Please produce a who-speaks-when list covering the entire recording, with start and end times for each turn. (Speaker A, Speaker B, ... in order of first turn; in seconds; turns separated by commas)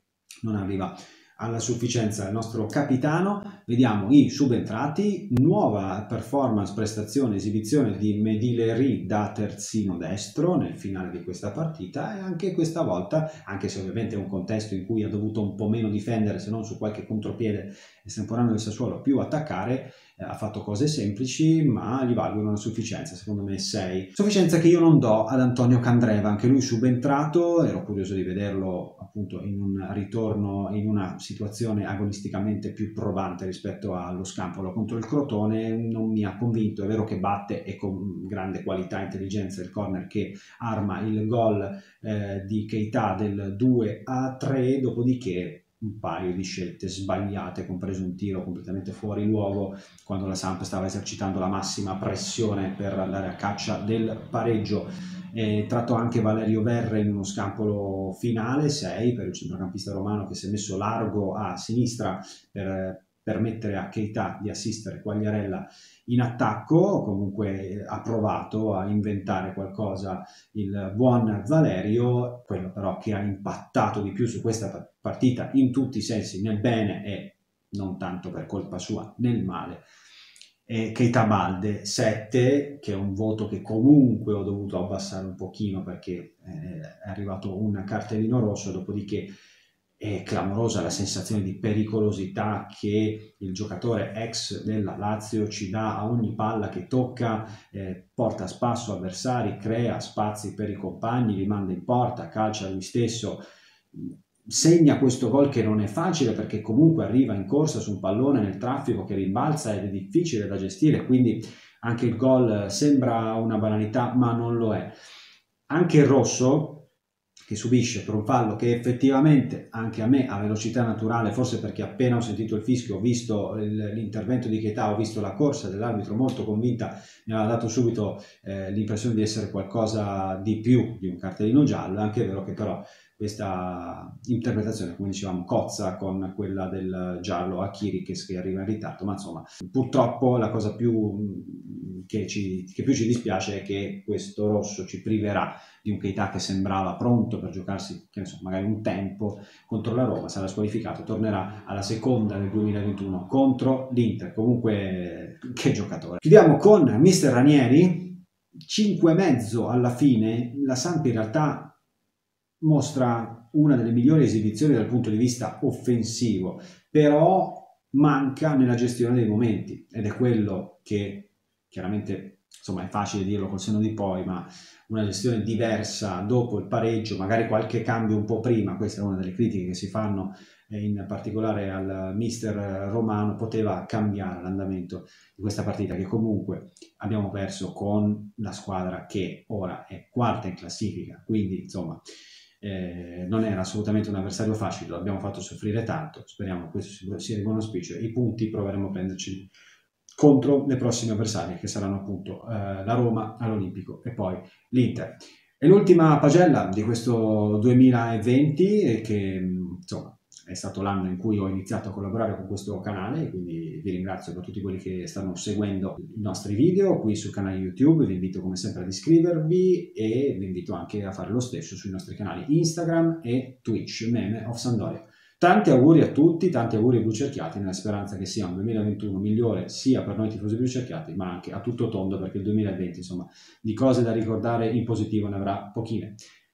Speaker A: 0.4-79.8, Speaker A: 80.7-89.3, Speaker A: 90.0-103.4, Speaker A: 103.9-114.9, Speaker A: 115.7-116.9, Speaker A: 117.5-161.8, Speaker A: 162.6-192.0, Speaker A: 192.6-199.5, Speaker A: 200.2-236.2